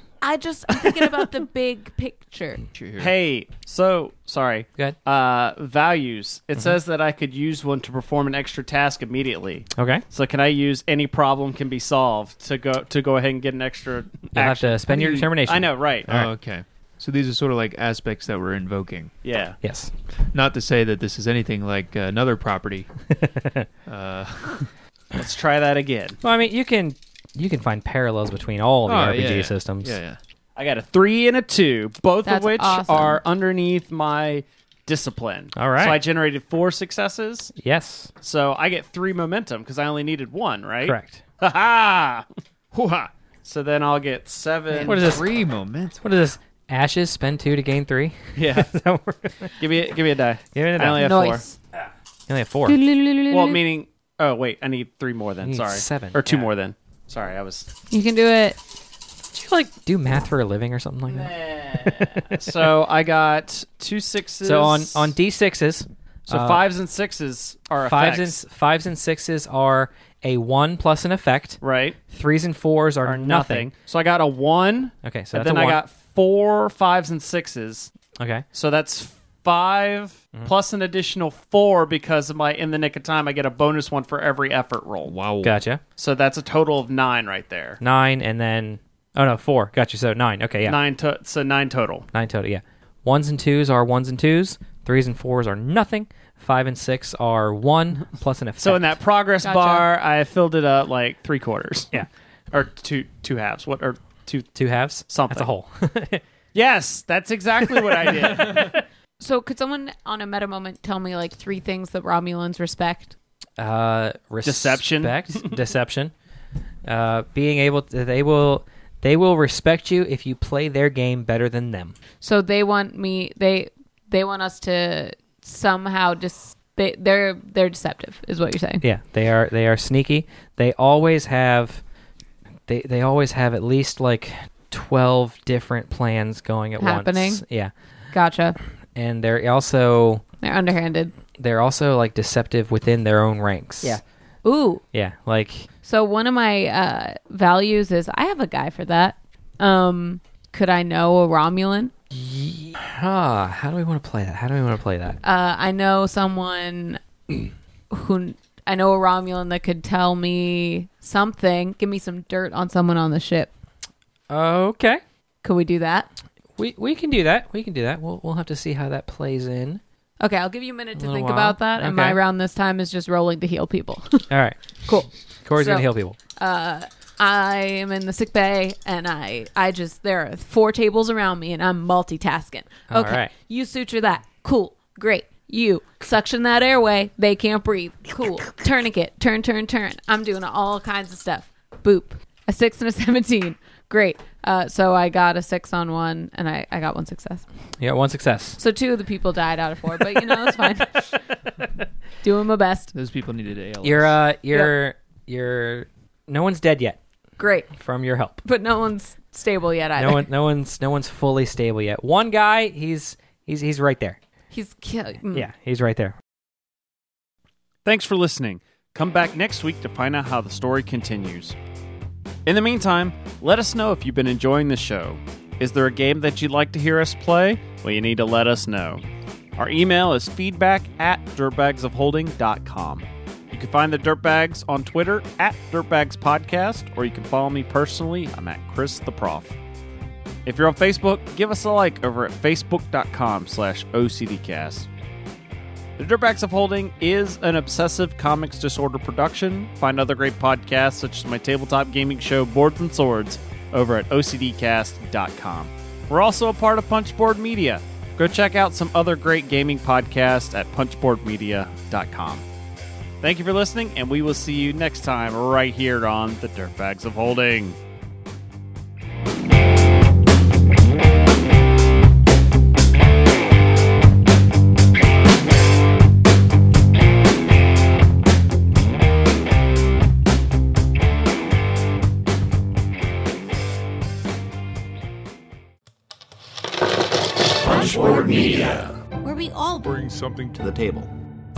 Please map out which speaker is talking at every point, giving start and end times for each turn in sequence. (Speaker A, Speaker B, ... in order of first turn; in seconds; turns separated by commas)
Speaker A: 0.2-2.6, Speaker B: 2.8-3.1, Speaker C: 3.0-16.1, Speaker D: 9.8-10.0, Speaker D: 14.3-16.3, Speaker B: 16.1-19.1, Speaker C: 19.2-19.6, Speaker D: 19.6-19.9, Speaker B: 20.3-22.9, Speaker D: 23.2-23.7, Speaker B: 23.9-24.7, Speaker C: 25.1-26.2, Speaker D: 26.2-30.0, Speaker B: 28.9-30.2, Speaker C: 30.6-37.5, Speaker A: 32.2-33.2, Speaker D: 35.6-36.0, Speaker D: 37.5-38.1, Speaker C: 38.2-42.2, Speaker D: 40.8-41.2, Speaker C: 42.8-45.1, Speaker B: 44.7-46.0, Speaker D: 44.8-45.3, Speaker D: 46.0-49.6, Speaker C: 48.4-48.7, Speaker C: 49.6-51.4, Speaker D: 50.5-51.3, Speaker A: 51.0-51.6, Speaker D: 52.3-52.8, Speaker A: 52.7-53.6, Speaker C: 53.3-57.7, Speaker D: 55.4-56.5, Speaker A: 57.9-58.6, Speaker D: 59.3-62.5, Speaker C: 61.1-65.1, Speaker D: 64.4-66.7, Speaker C: 66.3-68.4, Speaker D: 67.8-73.7, Speaker C: 71.6-72.0, Speaker C: 73.0-77.9, Speaker D: 75.0-75.8, Speaker D: 78.2-78.4, Speaker C: 78.5-85.2, Speaker B: 85.1-85.5, Speaker D: 85.4-85.8, Speaker C: 86.0-87.8, Speaker D: 87.8-90.8, Speaker C: 90.7-92.1, Speaker D: 92.1-99.0, Speaker C: 98.6-104.5, Speaker A: 99.4-99.8, Speaker D: 104.5-106.2, Speaker C: 105.1-105.5, Speaker C: 106.5-108.7, Speaker D: 108.0-108.8, Speaker A: 109.2-113.2, Speaker D: 113.6-116.1, Speaker C: 114.5-115.5, Speaker D: 116.8-122.0, Speaker A: 122.2-128.8, Speaker D: 128.8-131.8, Speaker D: 132.7-137.7, Speaker A: 136.8-137.4, Speaker A: 138.1-138.6, Speaker D: 138.9-140.2, Speaker A: 140.4-141.1, Speaker D: 141.4-144.0, Speaker A: 144.4-144.8, Speaker D: 144.9-145.7, Speaker A: 145.8-151.9, Speaker D: 152.1-155.2, Speaker A: 155.2-157.0, Speaker A: 157.9-163.5, Speaker D: 164.3-165.0, Speaker A: 165.4-166.1, Speaker D: 166.6-169.8, Speaker A: 170.2-174.3, Speaker D: 171.0-172.2, Speaker D: 174.3-174.6, Speaker A: 174.8-197.5, Speaker D: 175.4-176.2, Speaker D: 182.9-183.3, Speaker D: 197.8-198.6, Speaker A: 198.6-201.2, Speaker A: 202.2-202.9, Speaker B: 202.9-204.2, Speaker D: 203.8-207.0, Speaker A: 207.4-207.7, Speaker D: 207.8-208.4, Speaker A: 208.4-210.3, Speaker D: 210.0-214.2, Speaker A: 214.5-215.5, Speaker D: 215.3-216.2, Speaker C: 217.8-221.6, Speaker C: 222.5-229.0, Speaker C: 229.6-239.6, Speaker C: 240.5-244.9, Speaker C: 246.0-262.4, Speaker C: 263.2-267.8, Speaker E: 287.6-289.0, Speaker A: 289.3-289.7, Speaker E: 289.7-291.1